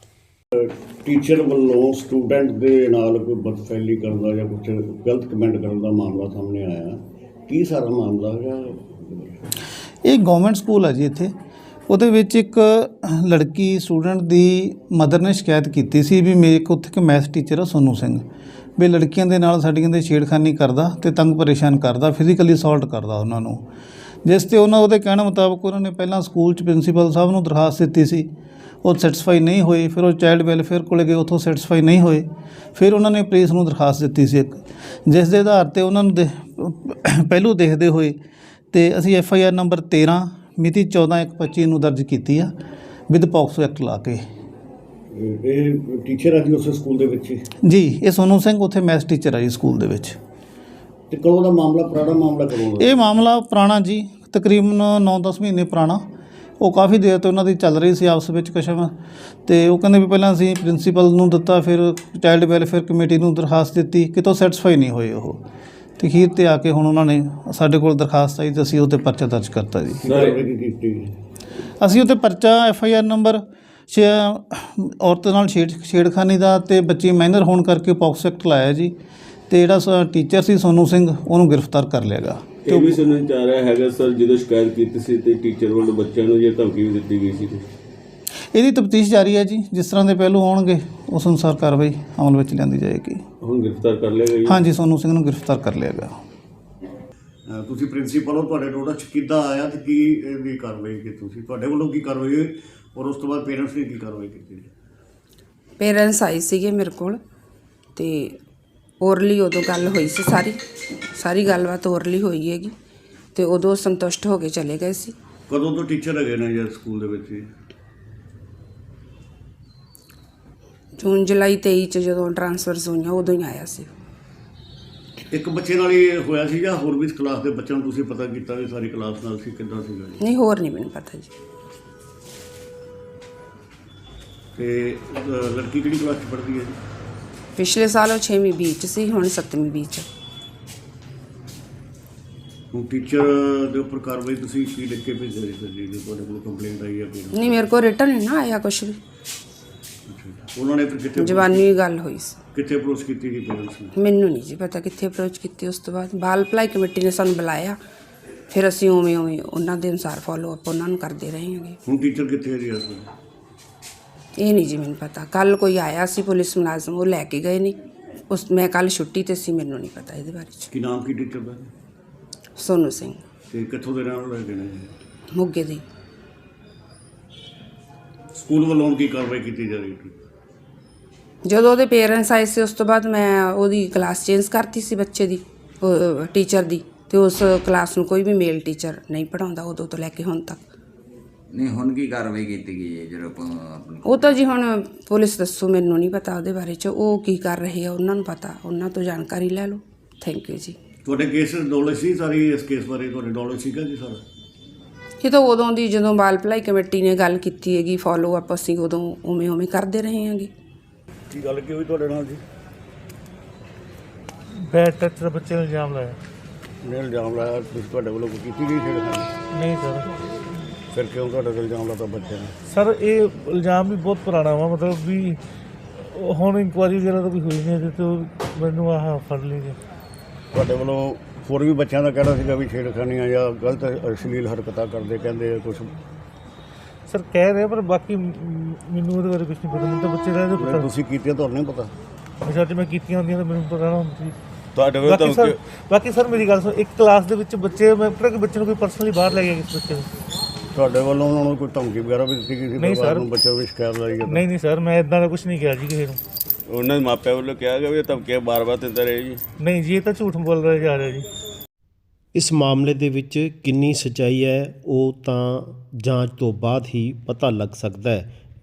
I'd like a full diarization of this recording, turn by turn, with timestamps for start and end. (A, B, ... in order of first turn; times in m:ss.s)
0:00.5-0:09.5 A
0:10.0-0:11.3 B
0:11.9-0:18.2 B
0:18.8-0:23.6 B
0:24.2-0:28.3 B
0:28.8-0:38.2 B
0:38.7-0:42.5 B
0:43.1-0:44.2 B
0:45.1-0:47.4 A
0:47.6-0:50.2 B
0:51.1-0:52.9 A
0:52.8-0:56.0 B
0:56.6-0:58.9 B
0:59.4-1:05.4 B
1:06.0-1:10.0 B
1:10.0-1:11.2 A
1:10.1-1:10.4 C
1:11.8-1:18.9 B
1:19.5-1:23.0 B
1:22.7-1:27.7 C
1:28.5-1:33.2 B
1:33.4-1:34.6 C
1:34.4-1:36.2 B
1:37.5-1:44.7 A
1:45.8-1:47.2 D
1:48.0-1:48.3 D
1:49.0-1:50.6 D
1:51.1-1:52.7 D
1:53.3-1:55.1 D
1:55.5-1:57.4 A
2:01.0-2:03.9 D
2:05.2-2:10.2 A
2:10.2-2:11.3 D
2:14.6-2:16.8 A
2:17.6-2:20.1 D
2:22.7-2:27.6 A
2:27.5-2:29.0 D
2:30.1-2:31.6 A
2:31.4-2:32.3 D
2:32.5-2:33.9 A
2:34.0-2:37.8 D
2:38.5-2:41.8 D
2:41.8-2:43.1 A
2:44.4-2:47.7 D
2:48.3-2:50.7 D
2:50.7-2:51.7 A
2:52.6-2:53.2 D
2:53.5-2:54.9 A
2:55.4-2:55.8 D
2:58.3-3:00.2 A
3:01.4-3:10.6 D
3:11.5-3:14.5 E
3:14.1-3:20.7 D
3:21.0-3:24.2 A
3:25.2-3:30.5 D
3:31.3-3:32.4 A
3:34.6-3:36.2 F
3:36.8-3:39.3 A
3:39.5-3:40.1 F
3:40.9-3:42.5 A
3:42.7-3:45.4 F
3:46.0-3:49.8 F
3:50.5-3:55.9 A
3:57.1-4:00.8 F
4:00.6-4:01.9 A
4:02.4-4:04.3 F
4:04.7-4:05.6 C
4:05.0-4:10.1 F
4:10.7-4:14.4 A
4:12.8-4:13.2 F
4:14.3-4:16.2 F
4:16.7-4:19.4 C
4:19.6-4:21.2 F
4:22.3-4:28.3 G